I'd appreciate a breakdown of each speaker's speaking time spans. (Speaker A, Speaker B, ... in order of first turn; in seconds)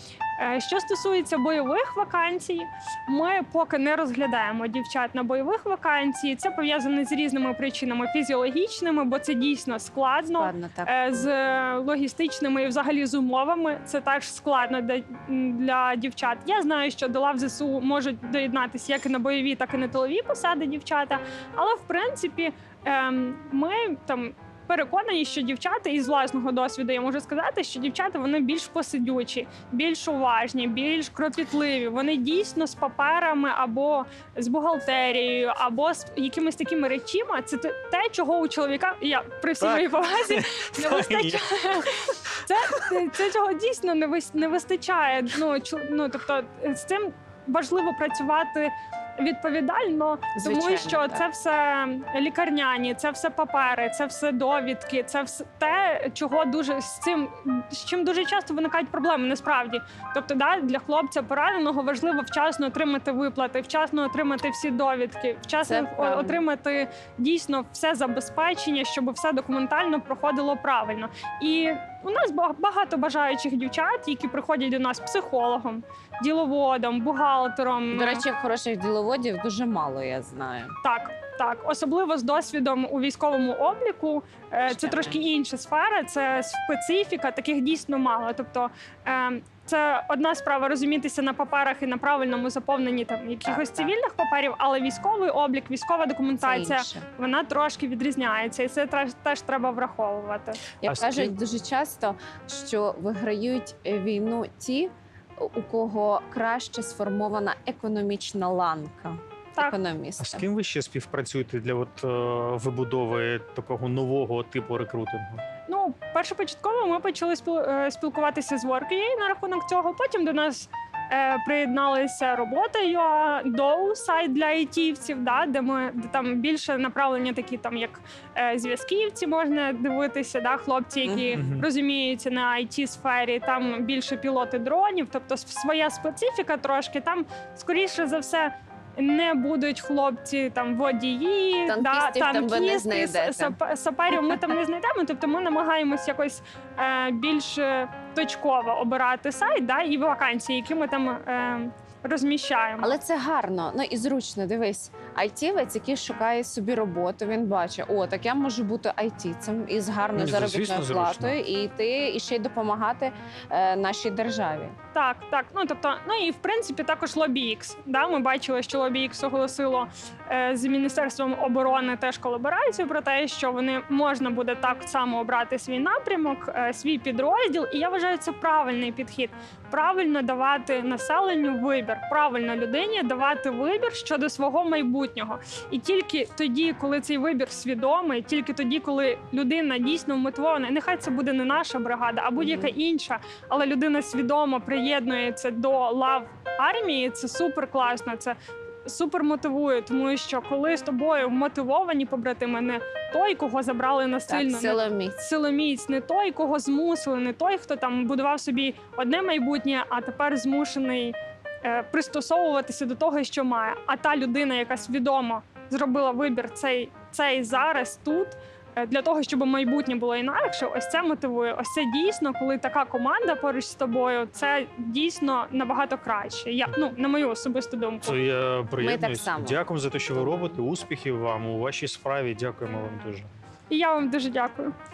Speaker A: 0.4-78.2, 80.8-100.6, 115.7-153.0, 164.9-228.2, 233.7-234.7
Speaker B: 10.3-11.3, 50.4-51.2, 65.6-66.4, 77.9-80.8, 84.7-85.2, 93.4-93.9, 96.4-97.0, 100.8-110.4, 131.0-131.4, 141.7-143.6, 144.3-144.5, 152.8-164.7, 192.4-192.7, 204.3-205.2, 228.8-230.6
Speaker C: 39.6-41.9, 100.8-101.3, 110.2-115.4, 131.3-131.7, 160.1-161.4, 228.0-233.3